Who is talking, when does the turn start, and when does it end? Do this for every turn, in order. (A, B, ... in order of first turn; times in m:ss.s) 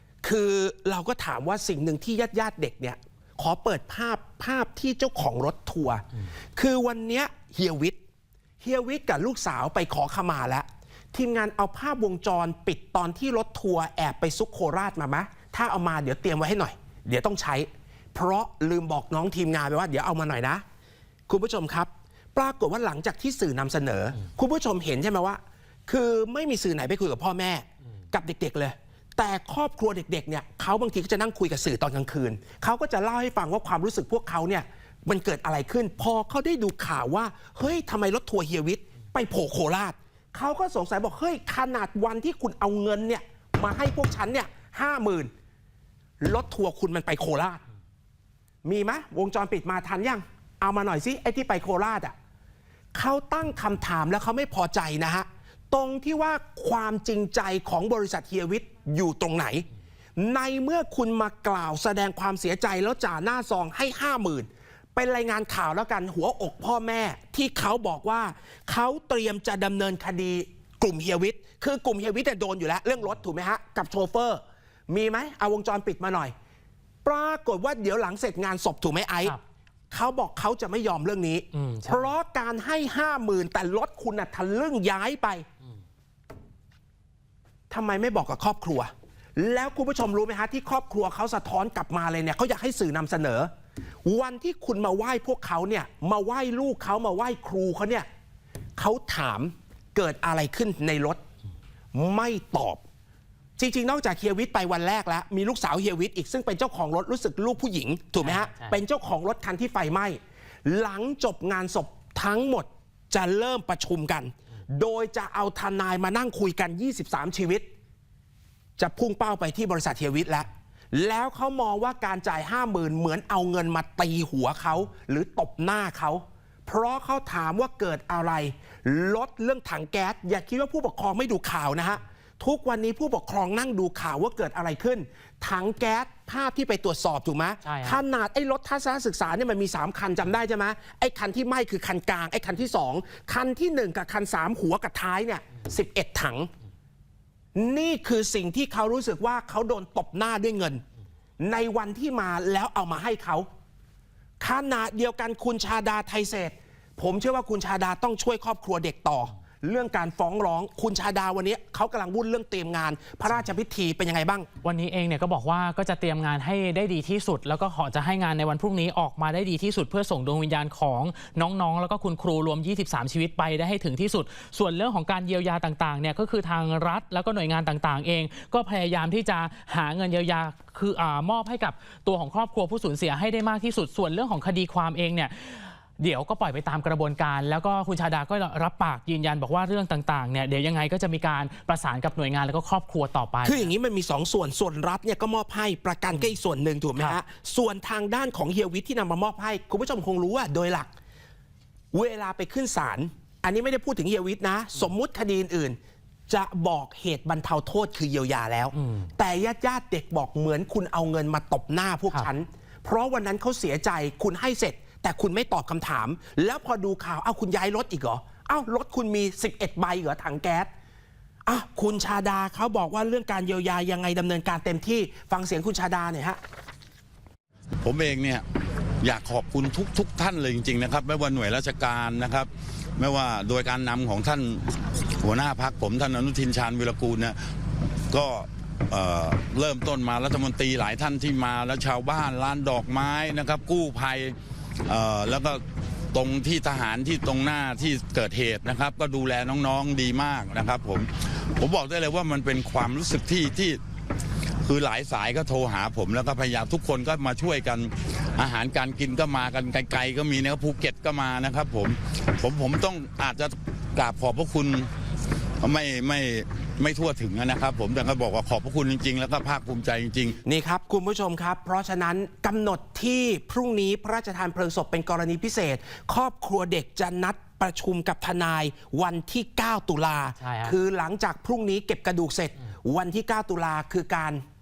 0:00.2-0:08.0 A
0:08.6-0:20.6 A
0:21.3-0:45.3 A
0:46.2-0:47.6 A
0:48.6-0:52.1 A
0:52.9-0:59.7 A
1:00.2-1:16.3 A
1:17.0-1:19.4 A
1:19.9-1:25.5 A
1:21.5-1:22.1 B
1:27.7-1:33.5 A
1:34.0-1:38.1 A
1:38.8-1:41.2 A
1:41.9-1:42.8 A
1:43.6-1:57.7 A
1:48.2-1:48.8 B
1:58.8-2:26.5 A
2:17.6-2:18.0 B
2:27.6-2:30.8 A
2:31.4-2:33.5 A
2:34.4-2:44.5 A
2:44.6-3:13.7 B
3:13.4-3:20.9 A
3:21.9-3:25.8 A
3:26.3-3:40.7 A
3:28.8-3:29.1 B
3:41.5-3:46.4 A
3:47.8-3:48.4 C
3:49.0-3:57.5 C
3:58.1-4:04.4 C
4:04.9-4:05.6 C
4:06.1-4:13.8 C
4:14.6-4:24.9 C
4:25.6-4:30.4 C
4:30.4-4:44.4 A
4:40.4-4:40.7 B